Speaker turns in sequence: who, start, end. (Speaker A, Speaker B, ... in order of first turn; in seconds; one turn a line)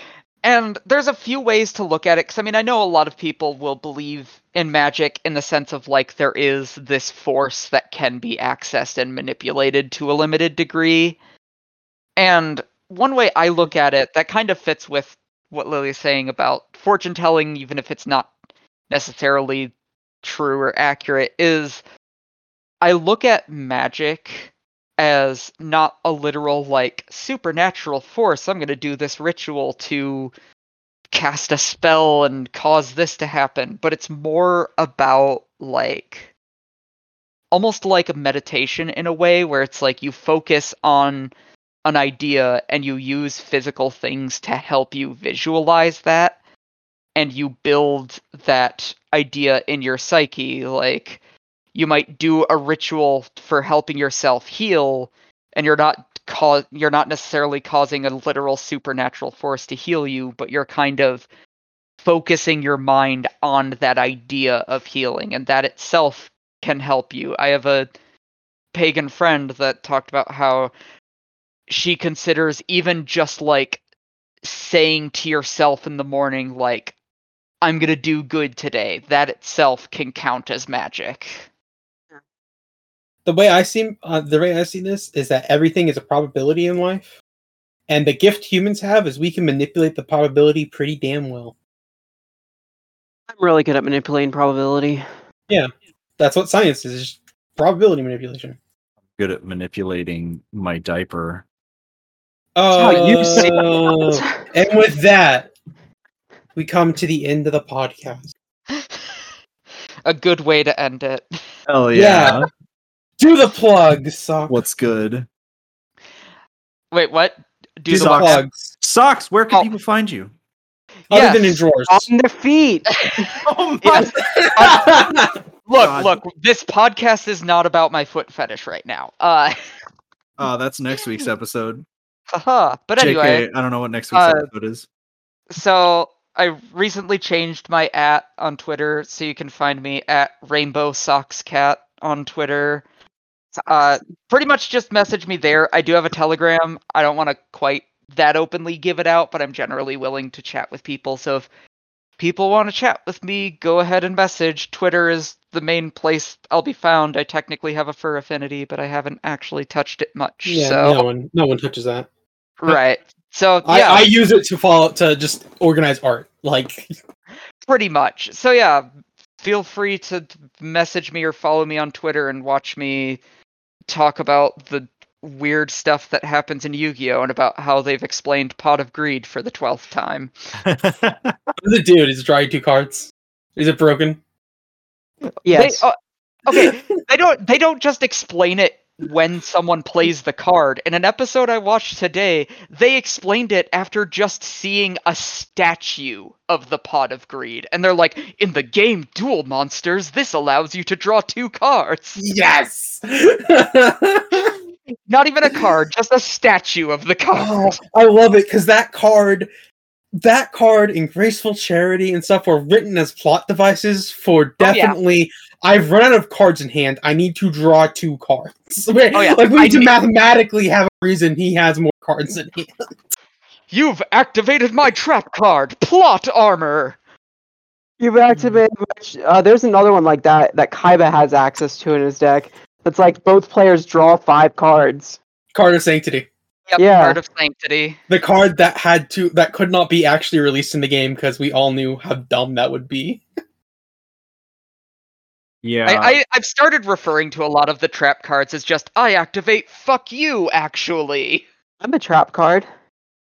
Speaker A: 0.4-11.2
Speaker A: 12.2-18.3
Speaker A: 18.9-21.8
Speaker A: 22.8-30.3
Speaker A: 31.1-36.3
Speaker A: 37.5-41.3
Speaker A: 41.8-46.4
Speaker A: 47.1-51.2
Speaker A: 51.7-61.3
Speaker A: 62.0-67.9
Speaker A: 68.7-70.7
Speaker A: 71.7-73.8
Speaker A: 74.4-77.0
Speaker A: 77.6-81.5
Speaker B: 83.2-87.1
Speaker B: 87.9-91.5
Speaker C: 93.3-95.0
Speaker B: 95.5-98.6
Speaker D: 99.2-101.4
Speaker B: 102.5-105.5
Speaker C: 102.7-104.4
Speaker D: 103.0-103.6
Speaker B: 106.5-108.3
Speaker A: 108.7-109.2
Speaker A: 110.0-111.2
Speaker D: 111.7-112.5
Speaker B: 111.9-112.4
Speaker B: 113.2-114.6
Speaker D: 114.5-115.3
Speaker A: 116.9-118.4
Speaker B: 117.9-118.7
Speaker D: 117.9-120.3
Speaker A: 121.1-121.6
Speaker B: 121.1-122.1
Speaker C: 121.9-123.3
Speaker A: 123.0-125.0
Speaker D: 123.4-124.2
Speaker B: 124.2-125.3
Speaker A: 125.7-129.5
Speaker D: 125.8-126.2
Speaker D: 130.4-131.8
Speaker A: 132.3-133.4
Speaker D: 133.0-134.8
Speaker A: 134.1-134.4
Speaker A: 135.5-142.8
Speaker A: 143.7-151.5
Speaker A: 152.2-161.0
Speaker B: 160.4-162.1
Speaker A: 162.6-164.1
Speaker B: 163.6-166.9
Speaker A: 167.7-168.9
Speaker A: 169.4-173.2
Speaker A: 173.9-180.3
Speaker D: 180.6-181.5
Speaker B: 181.6-184.2
Speaker C: 185.4-185.8
Speaker A: 185.5-185.9
Speaker A: 186.4-202.2
Speaker B: 202.2-204.6
Speaker A: 205.1-207.8
Speaker B: 207.3-209.5
Speaker B: 210.2-222.7
Speaker A: 214.6-215.0
Speaker A: 219.1-219.9
Speaker A: 223.7-227.0
Speaker C: 228.0-235.2
Speaker B: 235.5-236.3
Speaker A: 236.7-238.0
Speaker C: 236.8-237.2
Speaker B: 238.1-243.2
Speaker D: 245.6-246.1
Speaker A: 245.8-251.4
Speaker C: 251.8-252.7